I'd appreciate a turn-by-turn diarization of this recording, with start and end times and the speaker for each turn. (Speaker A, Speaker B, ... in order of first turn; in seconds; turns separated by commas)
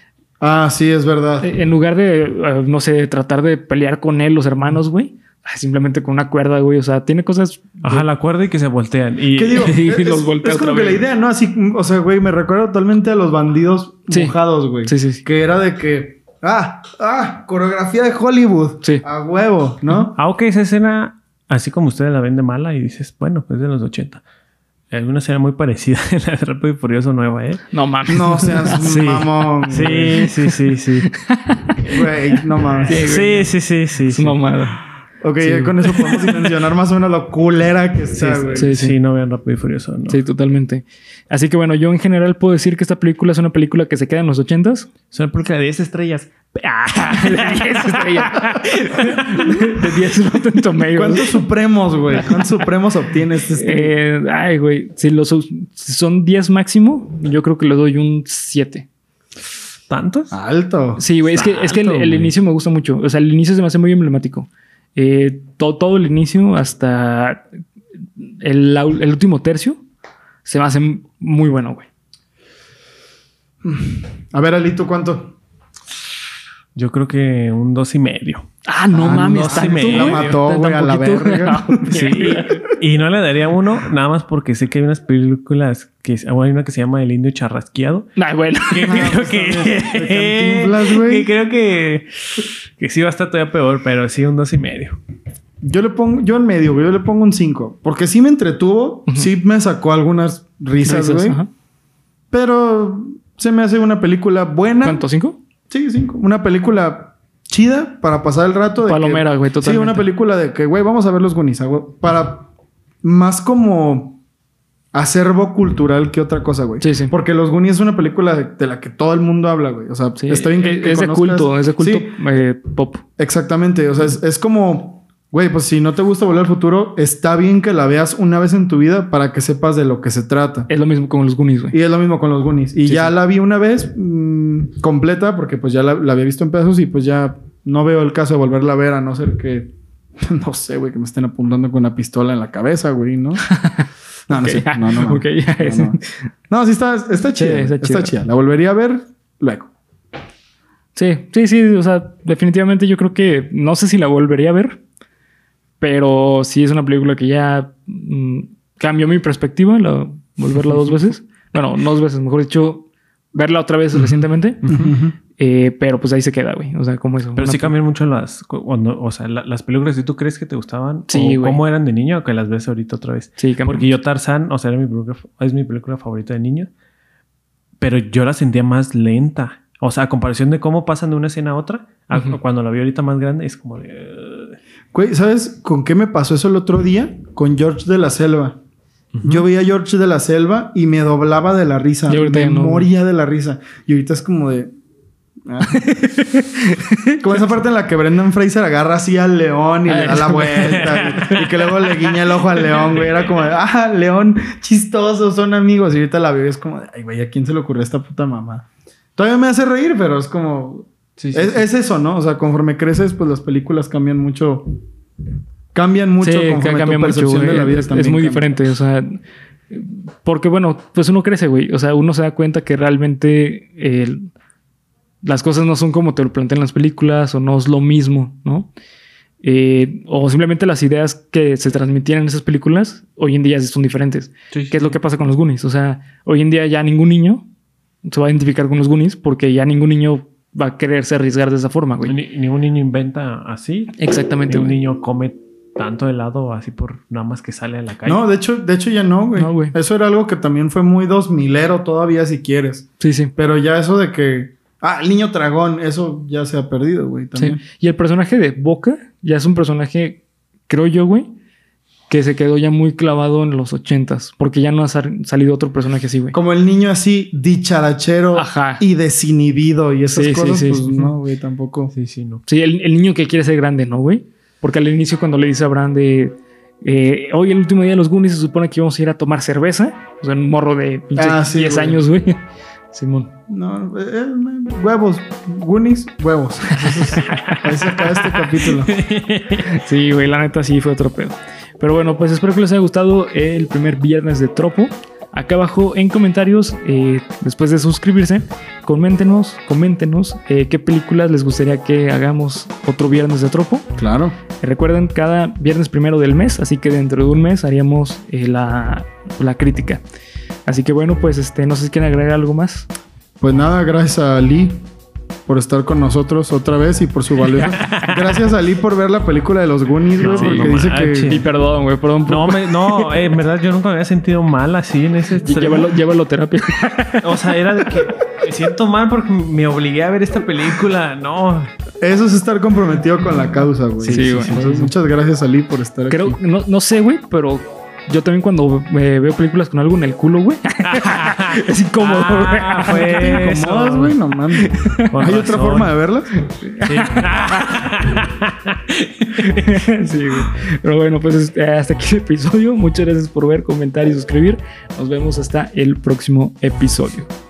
Speaker A: 0.4-1.5, Speaker B: 1.4-8.1, Speaker C: 7.8-9.8, Speaker A: 9.3-20.2, Speaker B: 9.6-11.0, Speaker B: 14.1-15.2, Speaker C: 20.1-24.2, Speaker C: 24.9-27.6, Speaker B: 27.7-30.6, Speaker A: 28.1-30.3, Speaker C: 29.7-31.1, Speaker B: 31.1-32.1, Speaker A: 31.8-33.1, Speaker B: 32.8-33.5, Speaker C: 32.9-34.4, Speaker B: 34.1-34.8, Speaker A: 35.2-38.7, Speaker B: 35.4-36.3, Speaker B: 38.2-38.9, Speaker C: 38.3-40.2, Speaker B: 40.1-44.9, Speaker C: 45.1-49.6, Speaker B: 47.1-51.4, Speaker A: 50.9-53.9, Speaker B: 52.1-52.5, Speaker B: 53.5-58.9, Speaker C: 59.9-60.3, Speaker A: 60.3-61.0, Speaker B: 61.0-67.4, Speaker C: 61.2-62.3, Speaker B: 68.2-69.8, Speaker B: 70.4-71.9, Speaker A: 73.6-75.3, Speaker C: 76.7-78.5, Speaker B: 78.6-82.6, Speaker A: 78.9-82.7, Speaker C: 79.0-80.3, Speaker C: 81.8-88.1, Speaker B: 88.2-89.2, Speaker C: 88.7-95.0, Speaker A: 88.8-91.3, Speaker A: 95.6-101.4, Speaker B: 100.8-101.5, Speaker A: 102.3-105.0, Speaker B: 104.8-105.4, Speaker A: 105.7-112.5, Speaker B: 108.8-110.1, Speaker A: 113.0-114.2, Speaker A: 114.9-122.1, Speaker B: 116.8-117.1, Speaker B: 120.2-123.0, Speaker A: 123.2-130.7, Speaker B: 130.7-131.7, Speaker A: 131.7-143.4, Speaker B: 132.8-133.1, Speaker B: 143.5-146.3, Speaker A: 144.3-146.0, Speaker A: 146.5-149.7, Speaker B: 147.3-148.1, Speaker B: 150.9-154.8, Speaker B: 155.8-167.7, Speaker A: 164.6-165.2, Speaker C: 167.3-176.7, Speaker B: 171.1-171.6, Speaker B: 173.4-173.9, Speaker C: 177.8-184.6, Speaker A: 184.9-188.6, Speaker C: 189.1-189.4, Speaker A: 189.2-194.7, Speaker B: 192.1-192.9, Speaker A: 195.4-196.0, Speaker B: 195.7-197.2, Speaker A: 197.2-214.7, Speaker B: 199.9-201.4, Speaker C: 200.5-203.1, Speaker A: 215.7-218.5, Speaker B: 216.2-224.3, Speaker B: 225.2-228.7, Speaker B: 229.4-237.4, Speaker C: 234.5-235.0, Speaker B: 238.1-242.1, Speaker C: 242.1-248.2, Speaker B: 244.0-244.8, Speaker A: 248.0-257.6, Speaker B: 249.3-249.7, Speaker B: 253.0-253.3, Speaker B: 257.4-261.3, Speaker B: 262.1-266.4, Speaker A: 266.3-271.9, Speaker B: 268.3-268.8, Speaker B: 270.1-271.1, Speaker C: 271.9-272.4, Speaker B: 272.4-282.4, Speaker A: 281.1-282.0, Speaker B: 282.9-283.3, Speaker A: 283.5-289.0, Speaker B: 286.7-287.2, Speaker C: 287.2-289.7, Speaker B: 289.6-303.9, Speaker A: 304.0-304.4, Speaker B: 304.6-310.0, Speaker B: 310.6-312.9, Speaker A: 313.4-314.8, Speaker A: 315.5-321.3, Speaker C: 317.6-318.4, Speaker C: 320.2-321.4, Speaker B: 320.2-323.1, Speaker C: 322.2-325.9, Speaker B: 325.4-327.9, Speaker C: 327.2-331.7, Speaker A: 332.0-336.4, Speaker C: 334.0-334.7, Speaker B: 334.1-334.9, Speaker B: 336.1-343.4, Speaker C: 340.9-344.2, Speaker A: 343.1-346.3, Speaker B: 344.6-345.1, Speaker C: 345.1-345.9, Speaker B: 346.4-347.9, Speaker C: 346.8-349.7, Speaker B: 349.2-357.3